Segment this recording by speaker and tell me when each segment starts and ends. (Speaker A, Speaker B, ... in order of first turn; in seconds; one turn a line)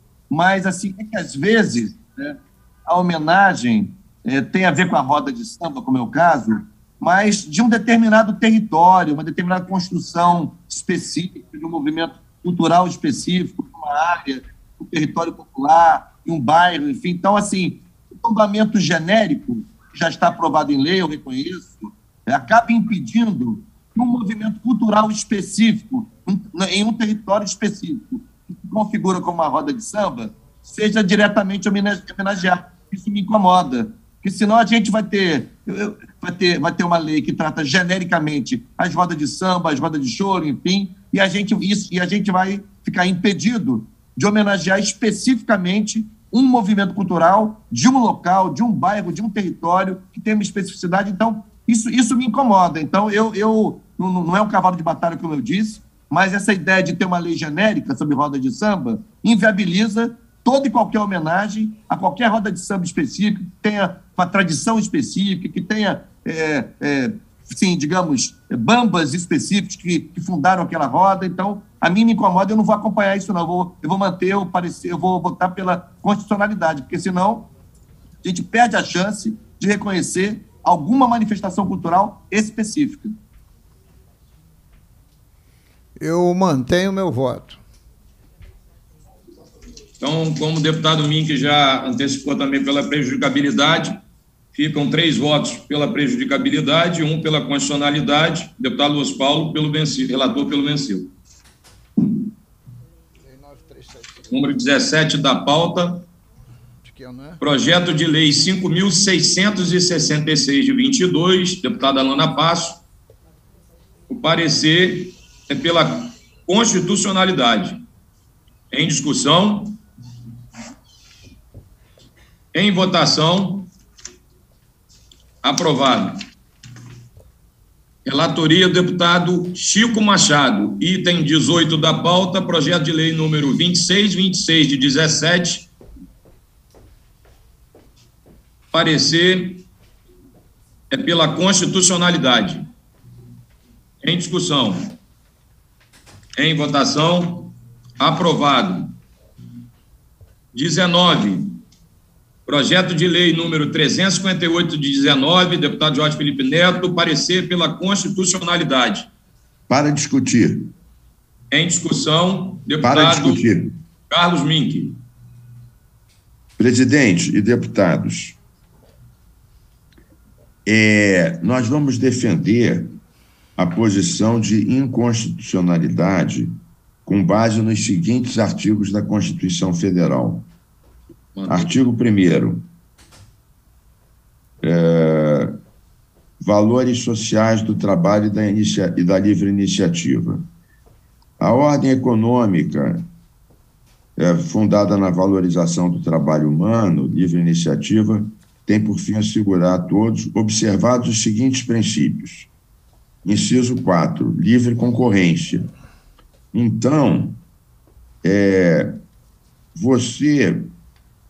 Speaker A: 0.3-77.5
Speaker A: 78.2-83.2
Speaker B: 86.0-87.6
Speaker C: 90.0-94.0
Speaker C: 94.5-101.1
Speaker B: 103.2-104.2
Speaker C: 104.3-106.0
Speaker B: 106.8-107.4
Speaker C: 107.4-112.8
Speaker C: 114.1-117.8
Speaker C: 118.7-119.8
Speaker C: 122.5-123.7
Speaker C: 125.4-126.2
Speaker C: 128.1-135.7
Speaker C: 138.7-139.7
Speaker C: 140.9-142.7
Speaker C: 144.0-145.0
Speaker C: 146.4-148.9
Speaker C: 150.5-151.6
Speaker C: 152.5-159.1
Speaker D: 159.7-160.7
Speaker C: 161.5-163.4
Speaker D: 162.8-163.8
Speaker C: 164.1-165.0
Speaker D: 166.6-168.4
Speaker D: 170.7-173.0
Speaker D: 173.6-180.5
Speaker C: 181.3-181.8
Speaker D: 181.5-182.7
Speaker D: 184.6-185.6
Speaker D: 186.4-190.5
Speaker D: 191.4-193.1
Speaker D: 194.2-202.5
Speaker D: 203.2-205.7
Speaker D: 206.5-207.4
Speaker D: 208.2-209.0
Speaker D: 209.8-210.7